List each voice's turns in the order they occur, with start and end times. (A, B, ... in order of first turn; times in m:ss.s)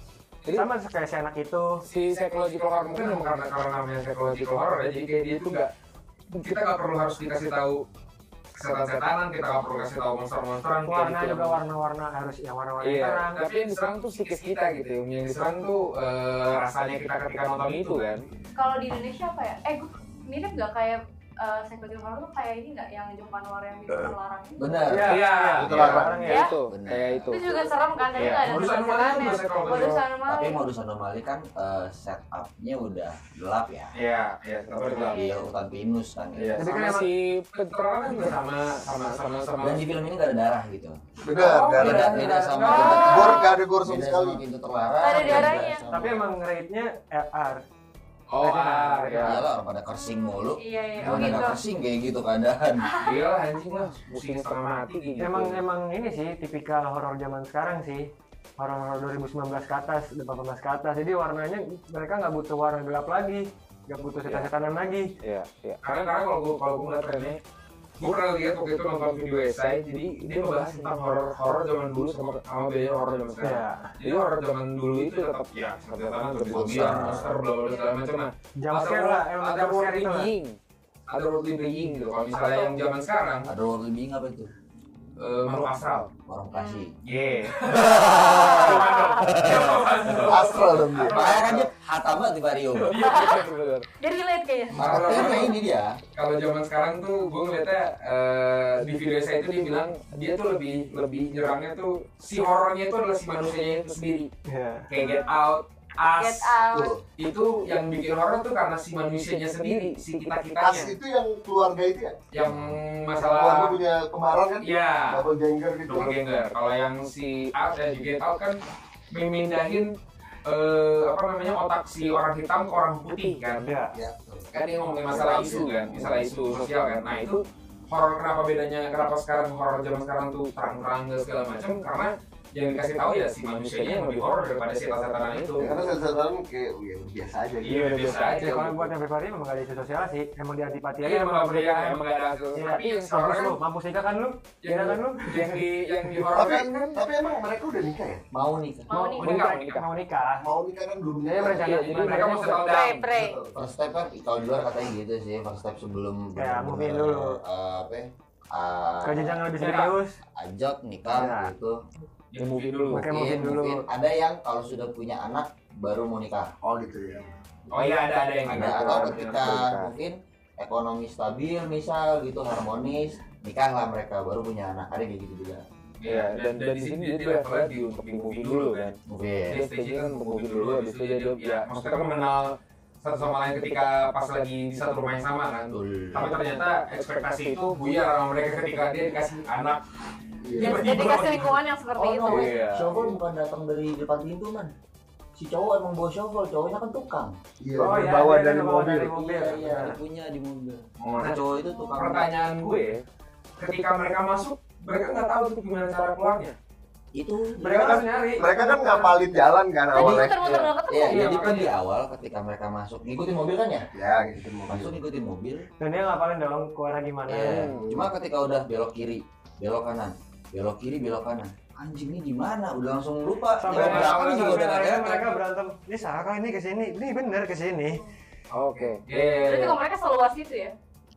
0:00.5-0:01.8 A
0:01.8-0:05.7 B
0:06.3-0:07.8 B
0:06.4-0:06.7 C
0:08.5-0:11.6 B
0:10.8-0:13.4 A
0:12.8-0:18.2 B
0:13.4-0:15.5 C
0:18.6-0:25.0 D
0:24.6-0:26.1 E
0:24.9-0:26.5 A
0:25.0-0:26.5 B
0:25.8-0:27.4 C
0:26.2-0:26.5 D
0:26.7-0:27.5 E
0:27.0-0:27.3 B
0:27.3-0:30.6 D
0:28.2-0:30.0 B
0:28.2-0:28.5 C
0:30.2-0:33.9 E
0:34.0-0:35.2 C
0:34.1-0:35.1 B
0:35.0-0:35.4 D
0:35.1-0:36.6 E
0:36.4-0:39.5 C
0:36.6-0:37.1 A
0:36.6-0:39.8 B
0:39.6-0:41.0 E
0:41.2-0:44.4 F
0:41.4-0:42.9 B
0:41.7-0:46.3 E
0:42.6-0:43.1 A
0:42.6-0:43.6 D
0:45.0-0:45.8 D
0:45.9-0:47.6 A
0:48.3-0:49.4 B
0:48.4-0:49.4 A
0:49.2-0:52.9 E
0:49.9-0:51.6 D
0:51.0-0:51.4 B
0:52.8-0:53.2 D
0:53.0-0:55.4 B
0:53.6-0:55.6 C
0:55.2-1:05.1 A
1:05.2-1:05.9 C
1:05.8-1:07.4 B
1:07.0-1:07.3 C
1:08.0-1:20.3 B
1:08.0-1:12.5 C
1:13.0-1:18.1 C
1:13.4-1:13.9 A
1:16.4-1:17.3 E
1:18.6-1:20.3 A
1:19.9-1:20.5 C
1:21.1-1:23.5 B
1:21.5-1:23.1 C
1:23.4-1:24.5 E
1:25.2-1:26.1 B
1:25.6-1:26.1 C
1:26.2-1:27.0 E
1:26.5-1:26.9 D
1:27.0-1:31.6 B
1:27.1-1:27.6 C
1:27.7-1:29.8 E
1:28.2-1:29.3 D
1:29.2-1:30.3 C
1:30.2-1:31.6 F
1:31.0-1:33.1 E
1:32.8-1:33.8 C
1:32.9-1:33.7 B
1:33.0-1:33.4 D
1:34.0-1:35.5 D
1:34.7-1:35.6 B
1:34.8-1:36.0 E
1:36.1-1:44.2 B
1:37.2-1:37.8 C
1:38.8-1:44.3 C
1:44.5-1:44.9 A
1:44.9-1:46.5 B
1:44.9-1:45.3 C
1:46.2-1:47.0 D
1:46.7-1:47.0 F
1:47.2-1:50.9 B
1:47.6-1:48.1 C
1:48.8-1:50.9 C
1:50.6-1:52.2 F
1:52.3-1:53.8 B
1:52.4-1:52.8 E
1:53.2-1:56.2 F
1:54.6-1:55.3 B
1:55.9-1:58.6 B
1:57.6-1:58.3 C
1:59.1-1:59.9 B
2:00.4-2:03.6 B
2:01.2-2:03.8 C
2:03.6-2:04.0 A
2:03.9-2:04.5 F
2:04.5-2:15.7 B
2:04.6-2:07.4 C
2:05.1-2:05.8 F
2:09.9-2:12.1 C
2:12.6-2:15.9 C
2:15.6-2:18.0 F
2:17.6-2:18.7 B
2:17.6-2:18.9 C
2:18.3-2:21.8 A
2:21.0-2:23.6 B
2:21.5-2:23.1 C
2:22.5-2:26.2 A
2:24.6-2:27.0 B
2:24.7-2:26.9 C
2:26.3-2:28.2 F
2:28.3-2:28.9 E
2:28.9-2:29.4 D
2:28.9-2:30.4 A
2:29.2-2:29.8 B
2:29.2-2:29.8 C
2:30.4-2:31.8 F
2:31.4-2:32.7 A
2:31.6-2:33.1 B
2:31.8-2:32.8 C
2:32.5-2:33.4 D
2:33.0-2:33.6 F
2:33.5-2:39.6 E
2:36.4-2:37.4 A
2:39.0-2:40.2 A
2:39.6-2:39.9 B
2:40.3-2:41.8 E
2:41.1-2:41.5 A
2:42.3-2:43.0 B
2:42.4-2:43.0 C
2:42.9-2:43.8 A
2:43.0-2:46.5 E
2:46.6-2:47.3 F
2:47.7-2:49.5 B
2:47.8-2:49.9 C
2:48.4-2:55.6 E
2:56.0-2:58.9 B
2:56.1-2:59.0 C
2:59.1-2:59.6 E
2:59.5-3:02.5 B
2:59.5-3:02.4 C
3:03.0-3:09.8 B
3:03.1-3:05.4 C
3:05.7-3:06.4 E
3:06.1-3:09.3 C
3:10.4-3:11.2 F
3:10.6-3:11.5 B
3:10.6-3:12.5 D
3:11.9-3:14.7 E
3:12.3-3:12.8 B
3:12.3-3:13.0 C
3:15.3-3:17.4 E
3:17.6-3:19.2 F
3:17.8-3:20.0 A
3:19.2-3:22.3 E
3:21.0-3:21.4 B
3:21.9-3:23.0 B
3:22.5-3:23.0 C
3:23.6-3:26.5 B
3:23.7-3:26.5 C
3:27.1-3:28.0 E
3:27.6-3:29.2 A
3:27.6-3:30.4 F
3:29.9-3:31.6 D
3:29.9-3:30.3 E
3:30.9-3:33.9 E
3:31.0-3:31.7 B
3:33.9-3:34.9 F
3:34.7-3:35.6 E
3:35.8-3:37.7 A
3:37.3-3:45.2 E
3:37.4-3:37.8 C
3:37.7-3:38.1 F
3:43.6-3:48.0 A
3:43.7-3:45.2 B
3:48.5-3:49.1 C
3:49.1-3:49.8 B
3:49.4-3:50.7 D